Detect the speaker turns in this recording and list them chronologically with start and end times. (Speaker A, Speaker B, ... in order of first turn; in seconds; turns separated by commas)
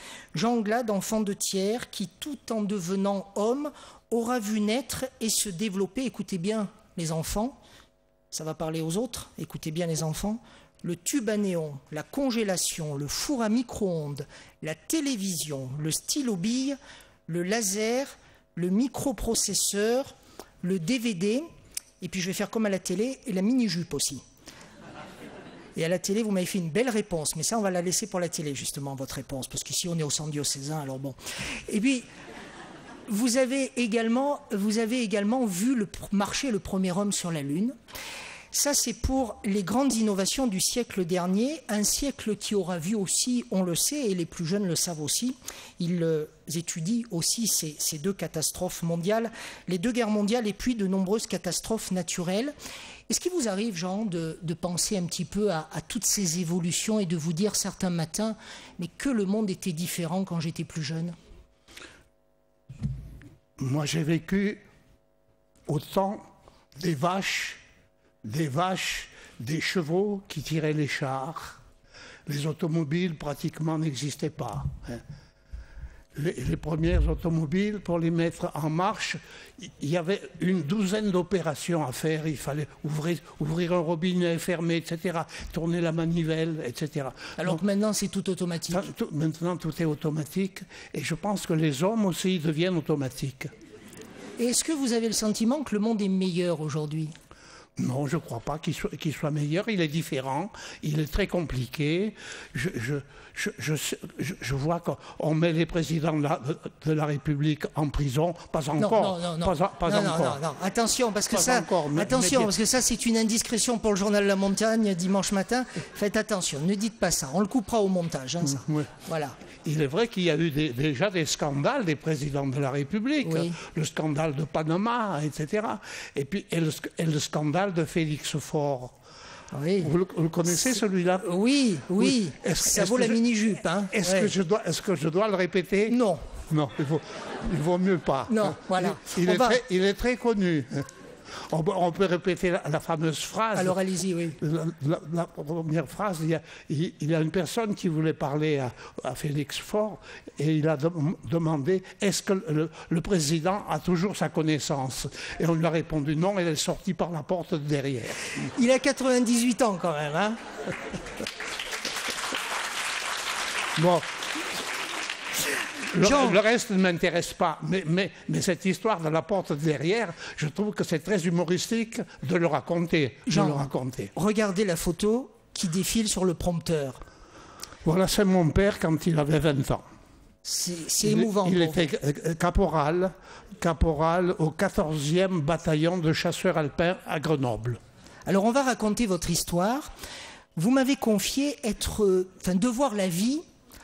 Speaker A: 0.3-7.6, Speaker A: 8.3-21.5, Speaker A: 22.0-24.2, Speaker A: 25.8-32.1, Speaker A: 33.1-37.7, Speaker A: 38.5-52.5, Speaker A: 53.1-61.1, Speaker B: 63.6-64.6, Speaker B: 65.7-66.2, Speaker B: 66.8-67.6, Speaker B: 68.2-71.6, Speaker B: 72.3-75.0, Speaker B: 76.1-87.6, Speaker A: 87.4-88.9, Speaker B: 88.7-93.5, Speaker A: 94.4-97.1, Speaker B: 97.8-110.4, Speaker A: 108.8-119.4, Speaker B: 111.3-112.5, Speaker B: 118.5-118.9, Speaker B: 119.6-129.0, Speaker A: 123.2-123.5, Speaker A: 129.5-129.9, Speaker B: 129.8-131.3, Speaker A: 131.2-134.3, Speaker B: 132.0-133.2, Speaker B: 133.9-136.0, Speaker A: 135.9-136.2, Speaker B: 136.5-143.7, Speaker A: 138.3-139.6, Speaker A: 143.5-144.4, Speaker B: 144.4-158.2, Speaker A: 158.3-160.4, Speaker B: 163.8-164.2, Speaker B: 165.9-174.1, Speaker A: 165.9-166.4, Speaker A: 173.2-177.0, Speaker B: 177.8-179.8, Speaker A: 180.4-181.9, Speaker B: 181.0-187.8, Speaker A: 188.3-189.9, Speaker A: 190.6-193.4